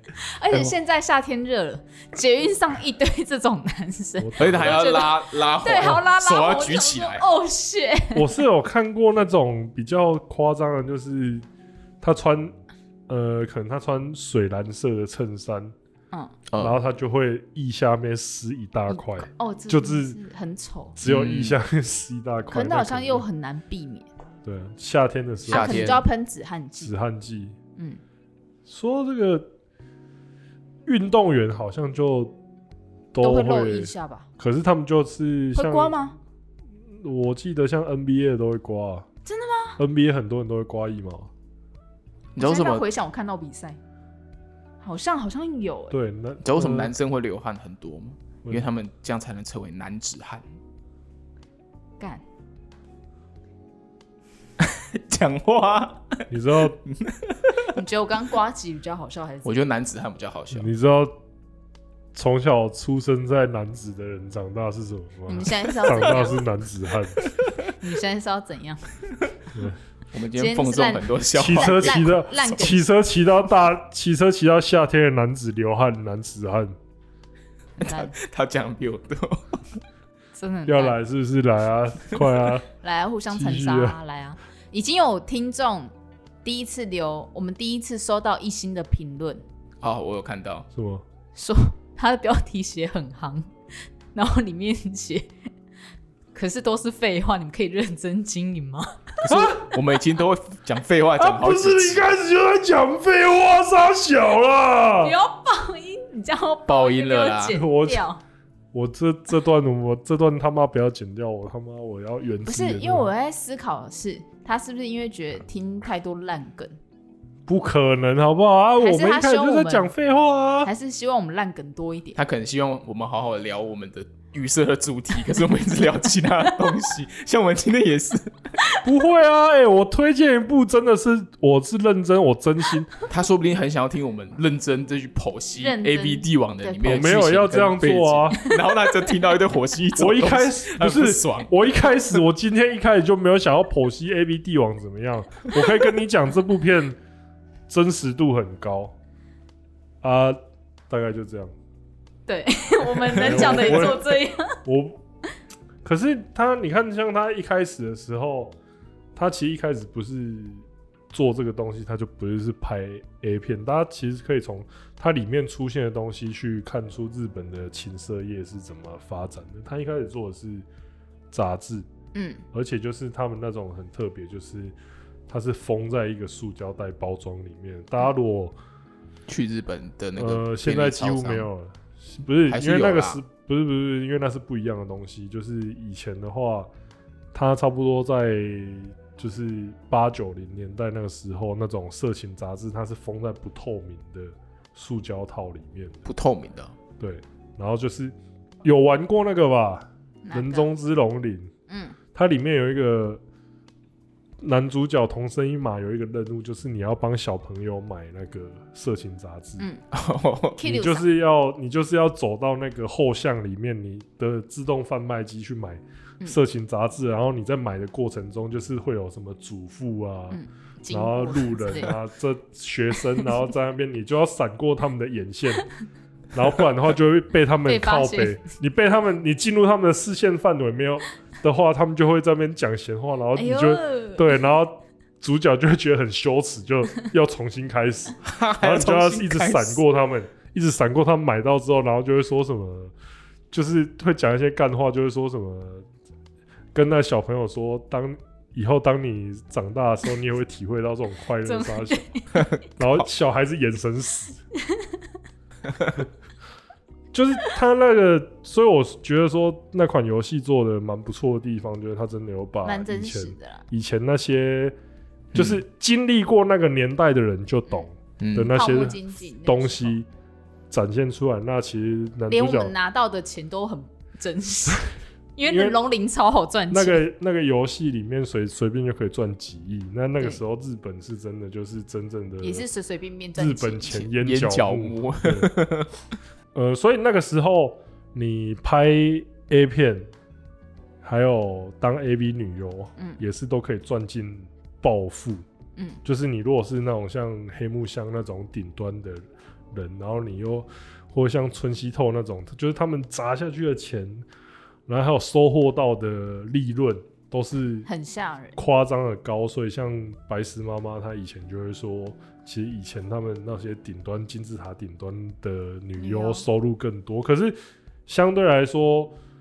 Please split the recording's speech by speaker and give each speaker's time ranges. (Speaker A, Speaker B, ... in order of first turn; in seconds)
Speaker A: 0.2-8.4, 18.9-21.0, 22.5-24.1, 25.5-26.9, 33.2-34.3, 35.5-36.1, 39.2-39.8, 42.4-43.8, 44.8-45.9, 57.6-59.6, 65.3-66.5, 67.8-68.9, 70.3-72.8, 77.8-78.1, 80.3-81.0, 82.8-85.9, 86.4-89.4, 91.3-93.5, 94.1-95.3, 96.3-99.2, 105.0-108.2, 112.5-116.8, 118.8-119.9, 120.6-122.2, 135.6-137.1, 152.3-154.6, 172.1-172.4, 200.2-200.7, 201.7-202.0, 210.6-211.1, 220.3-221.9, 227.7-228.4, 233.3-234.4, 251.4-252.4, 262.6-263.6, 268.5-270.0, 272.3-277.0, 282.4-284.1, 307.9-308.6, 316.0-316.4
Speaker B: 4.2-4.9, 8.1-11.4, 12.0-12.5, 13.1-15.7, 16.6-20.2, 21.0-23.2, 24.4-26.0, 26.8-27.6, 28.7-29.5, 30.9-32.4, 33.1-36.0, 36.9-39.1, 39.8-41.3, 45.9-46.9, 48.4-48.7, 56.3-56.8, 60.5-61.1, 62.1-67.2, 71.3-76.7, 80.7-82.6, 83.3-84.0, 90.7-91.0, 99.3-99.7, 101.2-105.1, 107.5-108.0, 108.7-113.1, 117.5-120.7, 128.8-133.0, 136.8-138.4, 140.0-147.0, 147.7-148.9, 150.0-151.5, 153.2-155.0, 155.8-158.5, 159.2-170.7, 171.3-171.9, 172.5-174.8, 175.3-178.6, 180.2-186.7, 187.3-196.0, 197.0-201.5, 202.1-203.2, 204.4-209.7, 210.6-225.7, 226.3-242.9, 243.5-245.9, 246.7-252.1, 252.8-254.4, 257.1-264.7, 265.3-270.1, 270.7-272.7, 275.4-275.8, 276.7-282.6, 283.4-285.5, 286.5-290.1, 291.0-295.4, 296.0-304.2, 304.9-307.9, 308.6-319.1
Speaker C: 4.4-7.2, 16.5-16.8, 21.0-21.6, 25.5-26.0, 42.3-42.8, 46.4-50.5, 54.6-56.2, 56.9-57.8, 59.4-60.7, 67.2-67.7, 70.1-72.7, 77.8-79.8, 89.8-90.7, 99.2-102.1, 106.7-107.6, 122.2-128.5, 133.1-141.5, 153.2-153.9, 179.3-181.4, 182.5-183.2, 196.0-196.7, 209.9-210.6, 238.2-239.8, 252.3-253.0, 265.3-265.6, 268.2-268.6, 284.2-285.9